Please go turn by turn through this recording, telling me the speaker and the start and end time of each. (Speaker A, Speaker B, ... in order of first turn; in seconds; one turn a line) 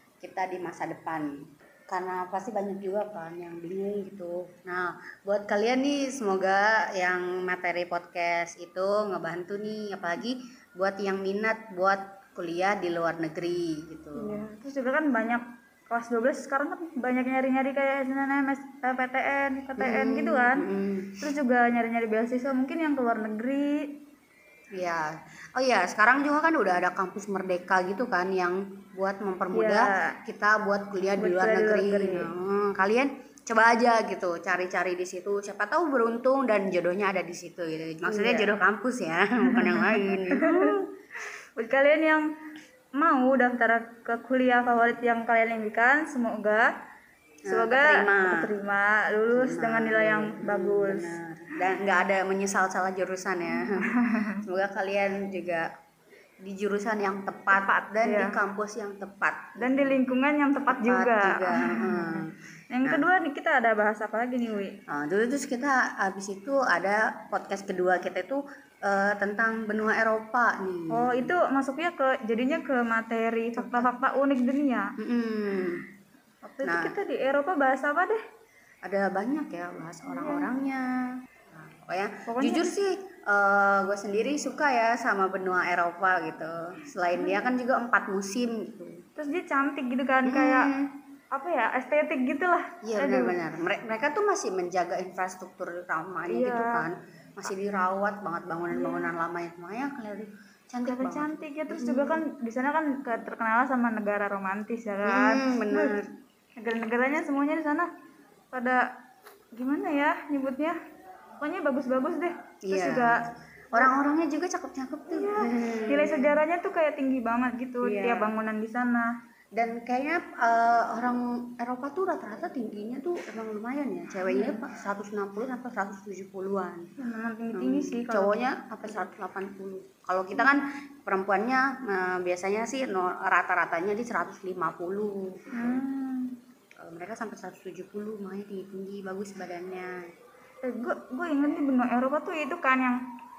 Speaker A: 0.2-14.4
Speaker B: 14.2-20.7
Speaker A: 19.8-21.2
Speaker B: 21.2-23.9
Speaker A: 24.7-40.9
Speaker B: 29.5-30.2
Speaker B: 31.2-32.3
Speaker B: 38.0-38.5
Speaker B: 39.5-40.8
Speaker B: 41.6-42.3
Speaker B: 43.0-46.7
Speaker A: 47.5-48.5
Speaker B: 47.5-51.1
Speaker A: 49.3-55.7
Speaker B: 53.6-54.4
Speaker A: 56.4-60.0
Speaker B: 57.5-58.4
Speaker B: 59.6-64.8
Speaker A: 60.7-63.0
Speaker A: 64.9-71.3
Speaker B: 70.9-74.9
Speaker A: 73.5-73.9
Speaker A: 75.0-75.8
Speaker B: 76.4-78.2
Speaker A: 76.6-76.9
Speaker A: 78.8-80.9
Speaker B: 80.1-80.5
Speaker A: 81.5-89.0
Speaker B: 82.3-82.7
Speaker B: 89.2-90.7
Speaker A: 90.2-90.9
Speaker B: 91.3-93.3
Speaker A: 92.8-102.2
Speaker B: 96.3-96.8
Speaker B: 98.7-99.1
Speaker B: 100.8-105.9
Speaker A: 105.0-106.1
Speaker B: 106.6-107.9
Speaker B: 108.5-108.8
Speaker B: 109.5-110.8
Speaker B: 111.4-113.2
Speaker A: 112.6-113.2
Speaker A: 113.7-116.3
Speaker B: 115.1-119.1
Speaker A: 117.8-118.3
Speaker A: 119.5-126.9
Speaker B: 124.3-124.6
Speaker B: 127.0-128.3
Speaker A: 127.5-135.8
Speaker B: 135.5-136.3
Speaker A: 136.8-140.0
Speaker B: 140.6-143.0